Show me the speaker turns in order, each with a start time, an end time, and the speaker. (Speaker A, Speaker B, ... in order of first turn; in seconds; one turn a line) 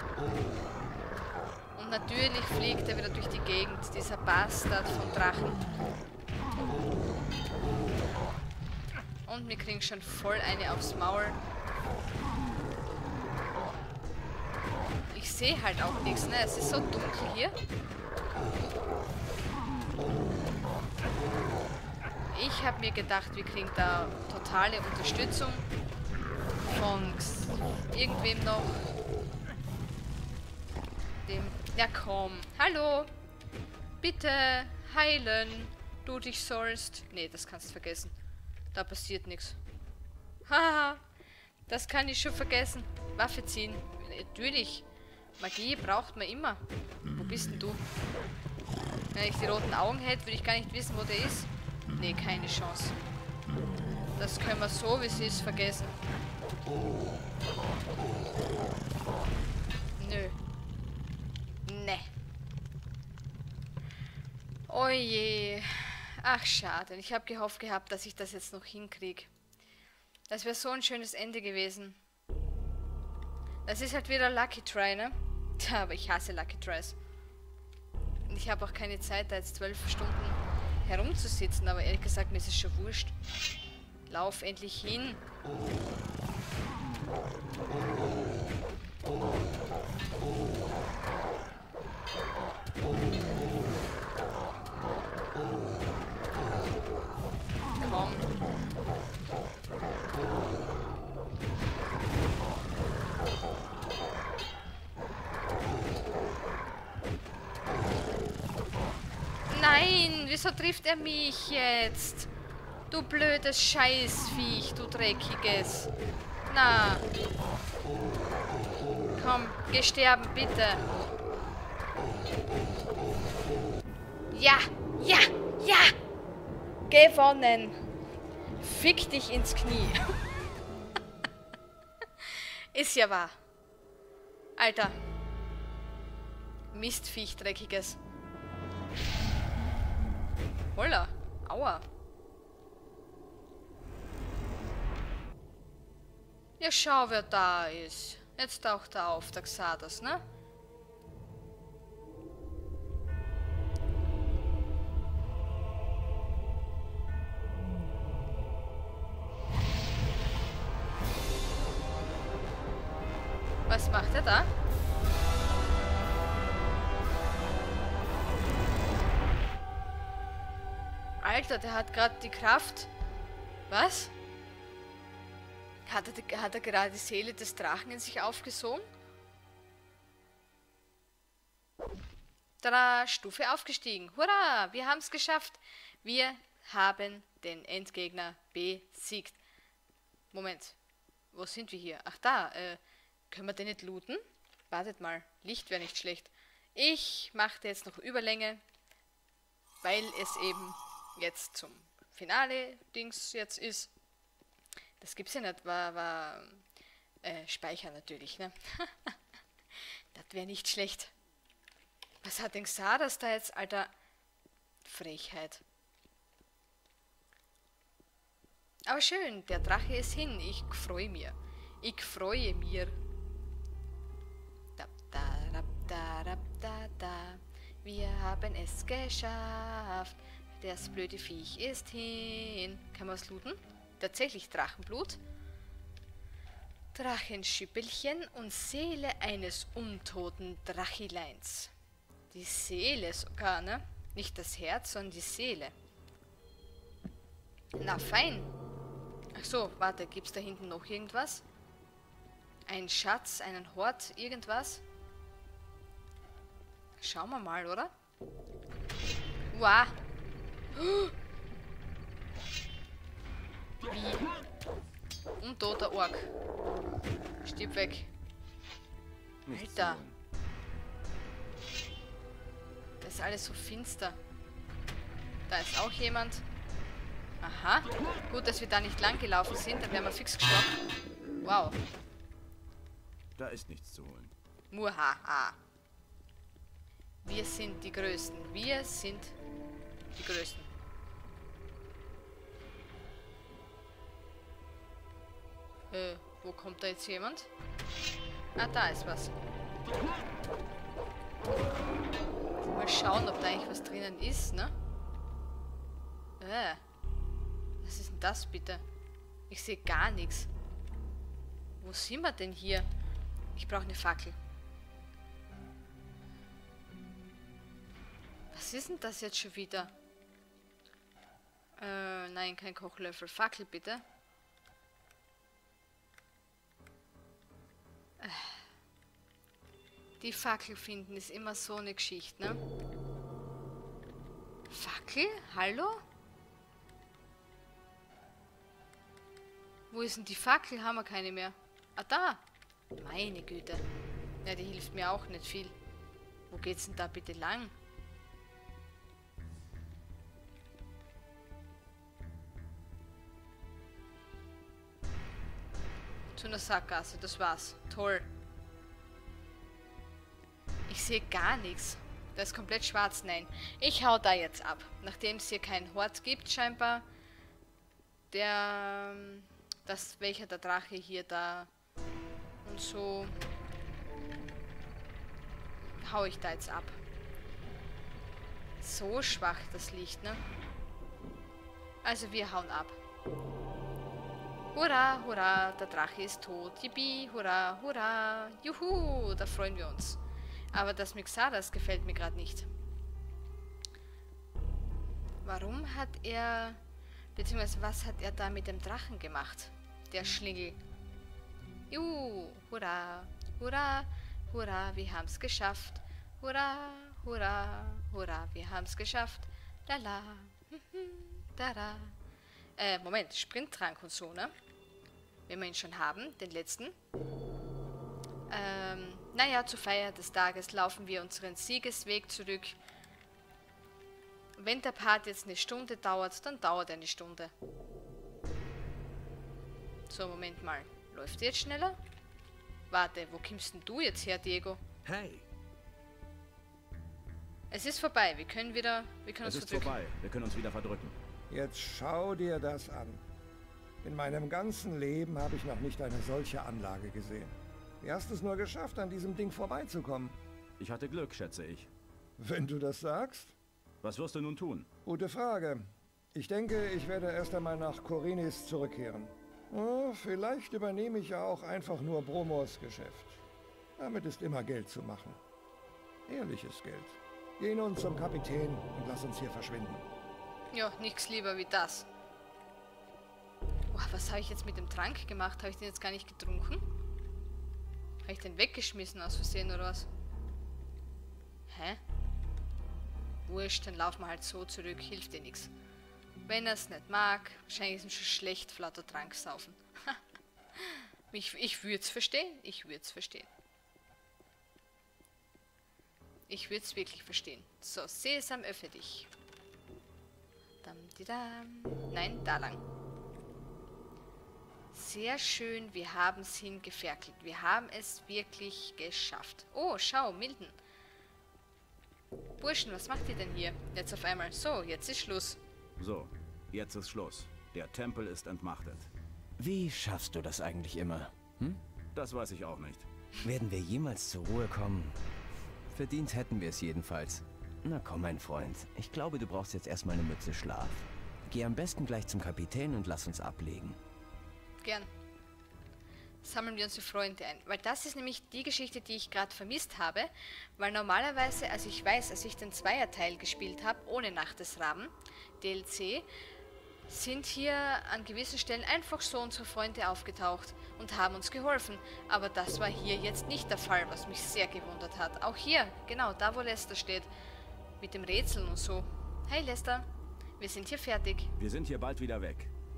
Speaker A: 1.8-5.7
Speaker A: 9.2-11.4
Speaker A: 15.1-17.5
Speaker A: 22.3-25.6
Speaker A: 26.6-28.8
Speaker A: 31.2-33.1
Speaker A: 34.0-38.1
Speaker A: 38.7-39.6
Speaker A: 40.5-41.0
Speaker A: 41.7-44.8
Speaker A: 45.4-47.8
Speaker A: 49.1-53.0
Speaker A: 54.2-56.0
Speaker A: 60.0-60.4
Speaker A: 61.6-62.1
Speaker A: 64.7-69.3
Speaker A: 70.3-72.0
Speaker A: 73.7-77.0
Speaker A: 78.3-83.1
Speaker A: 84.1-85.2
Speaker A: 97.8-98.3
Speaker A: 109.5-112.3
Speaker A: 112.9-115.9
Speaker A: 116.5-117.0
Speaker A: 119.1-120.8
Speaker A: 124.3-125.9
Speaker A: 126.9-127.8
Speaker A: 128.6-130.0
Speaker A: 132.2-133.4
Speaker A: 134.6-135.0
Speaker A: 136.7-138.0
Speaker A: 140.7-141.8
Speaker A: 146.6-150.2
Speaker A: 163.7-164.5
Speaker A: 171.2-172.9
Speaker A: 173.7-174.1
Speaker A: 175.8-178.8
Speaker A: 182.6-189.4
Speaker A: 190.3-190.8
Speaker A: 191.3-192.8
Speaker A: 193.3-198.6
Speaker A: 199.8-203.9
Speaker A: 205.0-206.6
Speaker A: 207.2-209.1
Speaker A: 210.1-211.1
Speaker A: 212.2-213.9
Speaker A: 214.8-215.6
Speaker A: 218.9-222.9
Speaker A: 224.8-235.2
Speaker A: 236.9-241.7
Speaker A: 242.3-245.7
Speaker A: 247.8-248.5
Speaker A: 249.3-251.4
Speaker A: 252.7-254.8
Speaker A: 257.0-257.9
Speaker A: 259.5-259.9
Speaker A: 260.7-261.1
Speaker A: 263.8-264.3
Speaker A: 265.4-266.3
Speaker A: 267.4-268.1
Speaker B: 269.4-270.1
Speaker A: 269.5-270.0
Speaker A: 273.0-274.2
Speaker A: 275.5-276.4
Speaker A: 277.4-280.8
Speaker A: 281.4-281.8
Speaker B: 283.4-284.3
Speaker A: 284.7-285.6
Speaker A: 287.2-289.3
Speaker A: 290.1-290.7
Speaker A: 295.9-297.5
Speaker A: 298.6-299.3
Speaker A: 302.6-304.7
Speaker A: 306.4-306.8
Speaker A: 307.8-308.8
Speaker A: 309.5-310.5
Speaker A: 311.8-312.9
Speaker A: 313.5-314.4
Speaker A: 318.5-319.9
Speaker A: 321.8-324.0
Speaker A: 328.2-328.6
Speaker A: 330.2-332.6
Speaker A: 334.7-336.0
Speaker A: 339.9-342.4
Speaker A: 342.9-343.8
Speaker A: 344.4-345.7
Speaker A: 346.5-347.7
Speaker A: 356.3-358.3
Speaker A: 360.9-367.1
Speaker A: 368.3-371.7
Speaker A: 372.6-373.4
Speaker A: 376.0-377.0
Speaker A: 378.8-380.4
Speaker A: 382.0-383.0
Speaker A: 384.7-390.2
Speaker A: 390.7-392.7
Speaker A: 395.4-396.8
Speaker A: 397.4-400.8
Speaker A: 401.9-412.1
Speaker A: 412.8-414.5
Speaker A: 415.5-416.9
Speaker A: 418.5-422.8
Speaker A: 424.6-427.5
Speaker A: 430.1-432.0
Speaker A: 432.9-434.8
Speaker B: 435.1-435.4
Speaker A: 437.7-439.9
Speaker B: 439.4-441.1
Speaker C: 441.5-443.2
Speaker C: 444.0-450.4
Speaker B: 450.8-451.9
Speaker C: 452.4-453.5
Speaker B: 454.0-454.9
Speaker C: 455.1-463.4
Speaker C: 464.0-465.4
Speaker C: 466.3-470.1
Speaker A: 470.7-472.1
Speaker A: 473.9-476.8
Speaker A: 478.2-480.1
Speaker A: 481.7-482.0
Speaker A: 483.5-485.7
Speaker A: 486.4-490.2
Speaker A: 490.8-493.5
Speaker A: 496.5-499.3
Speaker A: 500.8-502.8
Speaker A: 504.9-510.8
Speaker A: 512.6-515.6
Speaker B: 516.0-519.1
Speaker D: 519.6-521.8
Speaker B: 522.1-523.1
Speaker D: 523.4-525.2
Speaker D: 525.9-534.0
Speaker A: 534.8-535.1
Speaker A: 536.4-546.3
Speaker A: 547.1-557.3
Speaker A: 558.0-560.1
Speaker A: 560.6-561.5
Speaker B: 561.6-562.7